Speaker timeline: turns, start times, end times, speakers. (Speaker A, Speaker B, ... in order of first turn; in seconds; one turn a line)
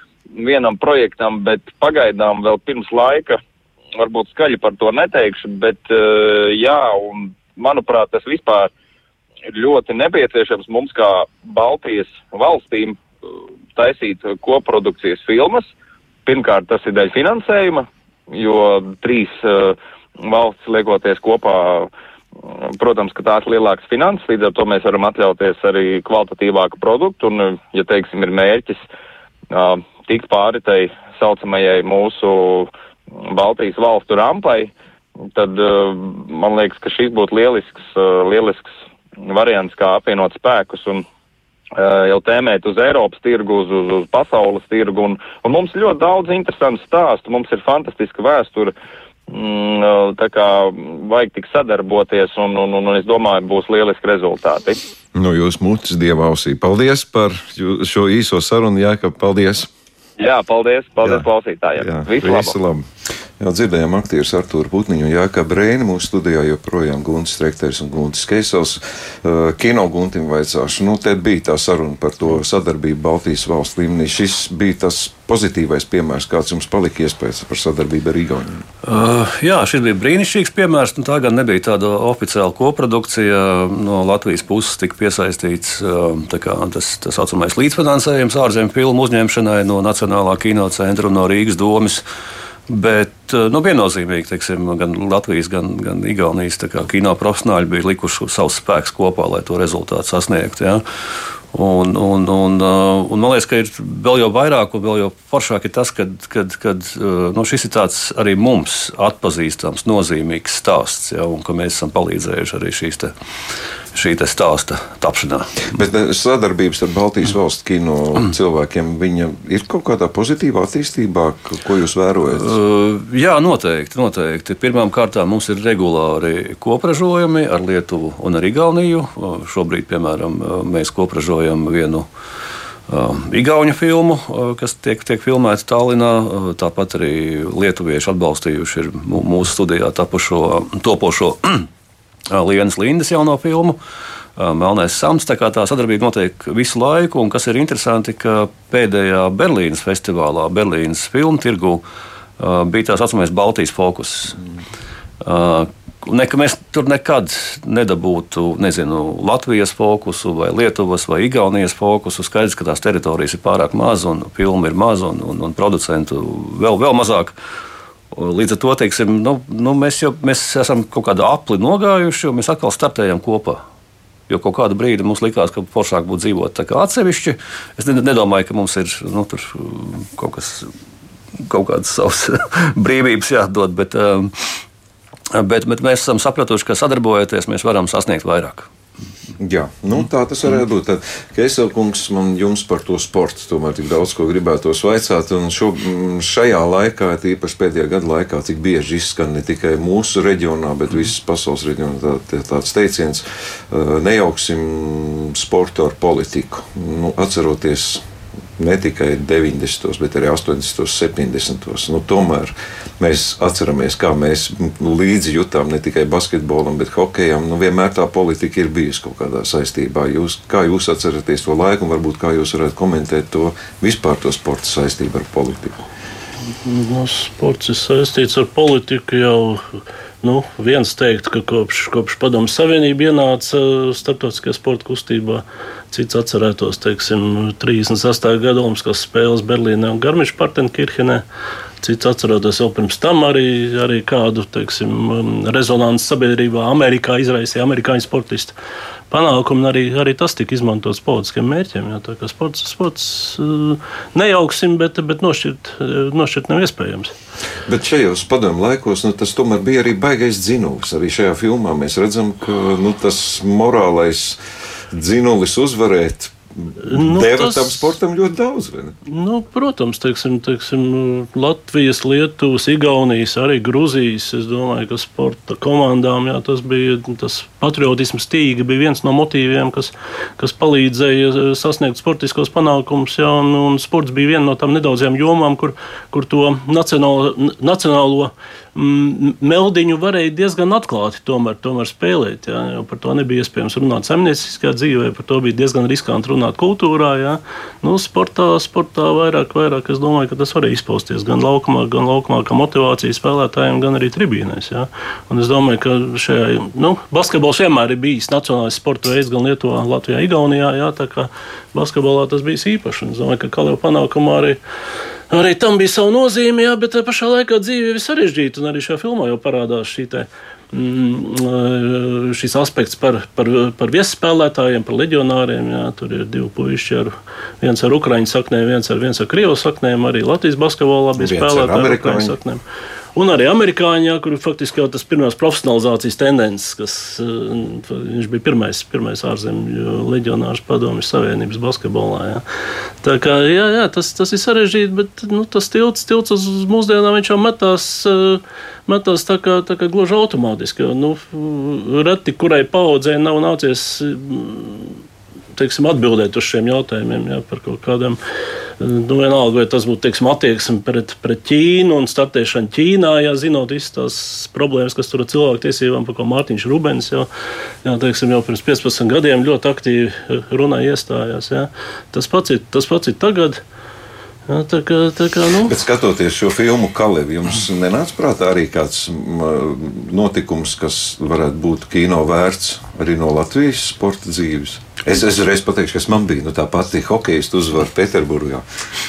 Speaker A: 0.3-3.4
Speaker A: 4.0-8.7
Speaker A: 9.5-13.0
Speaker A: 13.8-15.7
Speaker A: 16.2-21.9
Speaker A: 22.4-28.8
Speaker A: 29.5-32.7
Speaker A: 33.2-34.7
Speaker A: 35.3-38.7
Speaker A: 39.2-41.0
Speaker A: 41.8-48.7
Speaker A: 49.3-54.8
Speaker B: 55.1-59.7
Speaker A: 60.2-62.5
Speaker B: 61.8-62.9
Speaker B: 63.4-78.6
Speaker C: 78.8-92.0
Speaker C: 92.7-100.8
Speaker C: 101.5-113.1
Speaker C: 113.9-115.7
Speaker B: 115.7-122.6
Speaker C: 122.3-132.1
Speaker C: 132.9-141.7
Speaker C: 142.3-143.8
Speaker C: 144.4-151.8
Speaker C: 152.4-154.4
Speaker C: 155.2-167.4
Speaker C: 168.1-173.6
Speaker C: 174.3-180.7
Speaker C: 181.4-184.6
Speaker C: 185.3-188.7
Speaker B: 189.4-208.0
Speaker B: 208.6-225.8
Speaker D: 226.6-229.7
Speaker D: 230.2-241.2
Speaker D: 241.8-248.5
Speaker D: 249.1-257.1
Speaker B: 257.6-264.4
Speaker B: 264.9-269.0
Speaker D: 266.8-267.9
Speaker D: 269.1-314.6
Speaker D: 315.3-332.6
Speaker B: 331.1-332.4
Speaker D: 333.1-342.4
Speaker D: 343.0-354.9
Speaker D: 355.6-358.2
Speaker D: 358.8-367.3
Speaker D: 367.8-373.6
Speaker D: 374.5-375.7
Speaker B: 375.6-388.6